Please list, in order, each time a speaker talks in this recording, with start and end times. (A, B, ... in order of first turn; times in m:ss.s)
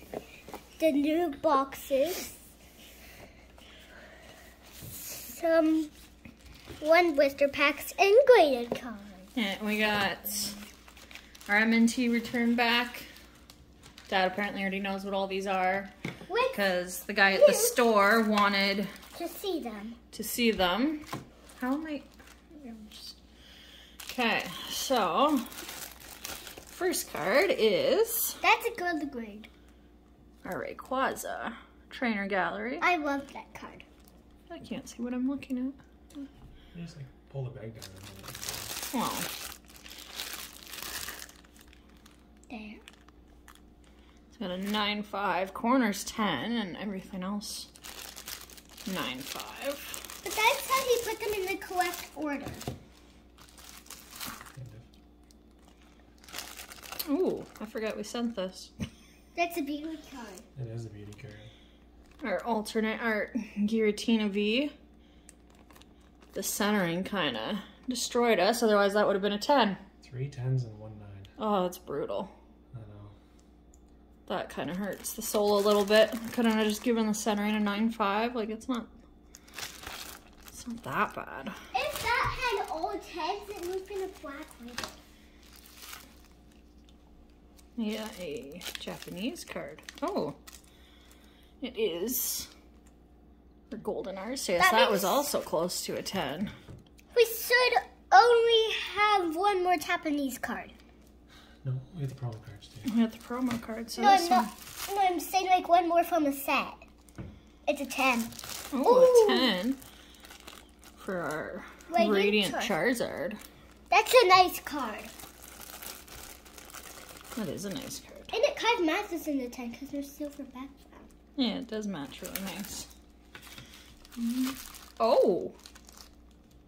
0:00.8-0:02.4 A
0:05.1-0:05.9 A
0:06.8-0:09.3 A
0:09.4-0:10.6 B
0:11.5-0:13.1 B
0:14.1-0:15.9 B
0:16.3-0:16.6 A
0:16.5-0:18.9 B
0:17.3-0:17.8 A
0:19.1-0:20.0 A
0:20.1-0:21.0 B
0:21.6-0:23.2 B
0:24.1-0:25.5 B
0:26.7-0:28.4 B
0:28.4-0:29.5 A
0:30.4-0:32.8 B
0:32.8-0:33.8 A
0:34.5-0:35.8 B
0:36.7-0:38.7 C
0:38.9-0:39.3 B
0:42.5-0:42.8 A
0:44.3-0:47.7 B
0:48.8-0:50.0 B
0:50.2-0:52.6 A
0:54.5-0:54.9 C
0:57.0-0:58.7 B
0:59.3-1:00.4 A
1:00.6-1:01.5 C
1:02.2-1:04.7 B
1:06.3-1:09.8 B
1:10.0-1:11.3 C
1:11.4-1:12.3 B
1:12.7-1:13.1 C
1:14.3-1:18.9 B
1:20.5-1:21.6 B
1:21.7-1:25.0 A
1:27.8-1:30.4 B
1:31.6-1:32.5 B
1:33.7-1:36.5 B
1:34.6-1:35.2 A
1:37.1-1:40.7 A
1:41.6-1:42.9 C
1:42.8-1:44.5 B
1:44.0-1:46.8 A
1:47.6-1:49.5 A
1:48.7-1:49.8 B
1:51.0-1:53.4 B
1:51.9-1:52.7 A
1:53.9-1:55.1 A
1:57.4-1:58.3 B
1:58.3-2:01.1 A
2:01.4-2:02.9 B
2:04.2-2:05.6 B